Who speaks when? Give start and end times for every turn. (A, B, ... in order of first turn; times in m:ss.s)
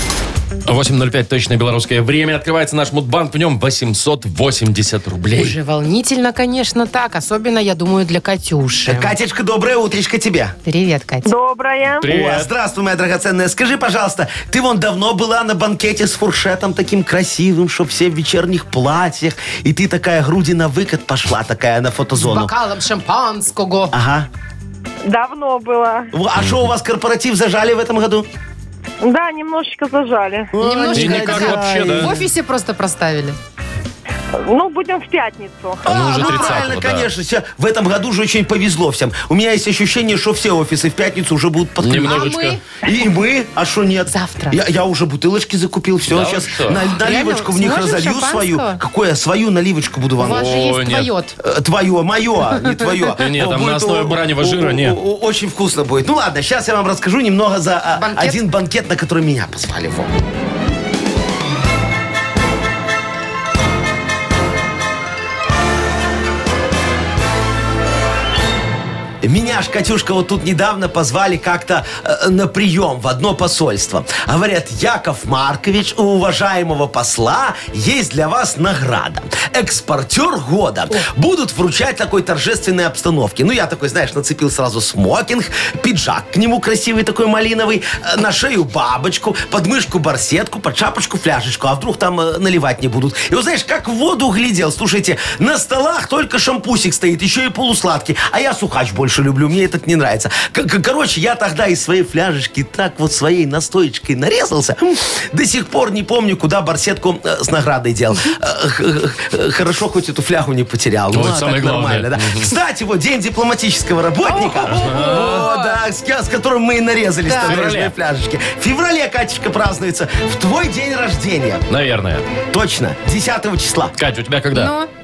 0:00.6-0:05.6 A
0:05.4-0:09.2 B
0:08.8-0:10.6 C
0:10.7-0:11.3 B
0:11.3-0:12.0 D
0:12.0-0:12.5 A
0:12.1-0:22.5 C
0:22.2-0:24.0 B
0:23.9-0:24.3 C
0:25.1-0:26.1 D
0:26.1-0:28.3 C
0:29.0-0:30.5 D
0:30.5-0:32.3 C
0:30.6-0:33.4 B
0:30.9-0:32.1 A
0:34.4-0:35.8 D
0:35.8-0:50.6 C
0:35.9-0:37.1 A
0:41.8-0:42.6 A
0:42.1-0:42.6 B
0:44.1-0:44.6 B
0:46.1-0:46.9 A
0:47.0-0:48.8 B
0:50.2-0:51.4 B
0:50.3-0:51.1 A
0:51.4-1:00.1 C
0:53.2-0:55.0 A
0:58.0-0:58.4 B
1:09.2-2:01.6 C
1:51.1-1:52.5 A
1:54.2-1:55.8 B
1:54.6-1:55.4 A
1:57.3-1:57.6 B
1:57.4-1:58.0 A
2:01.7-2:02.3 A
2:02.5-2:04.0 C
2:04.0-2:04.7 A
2:04.5-2:04.9 B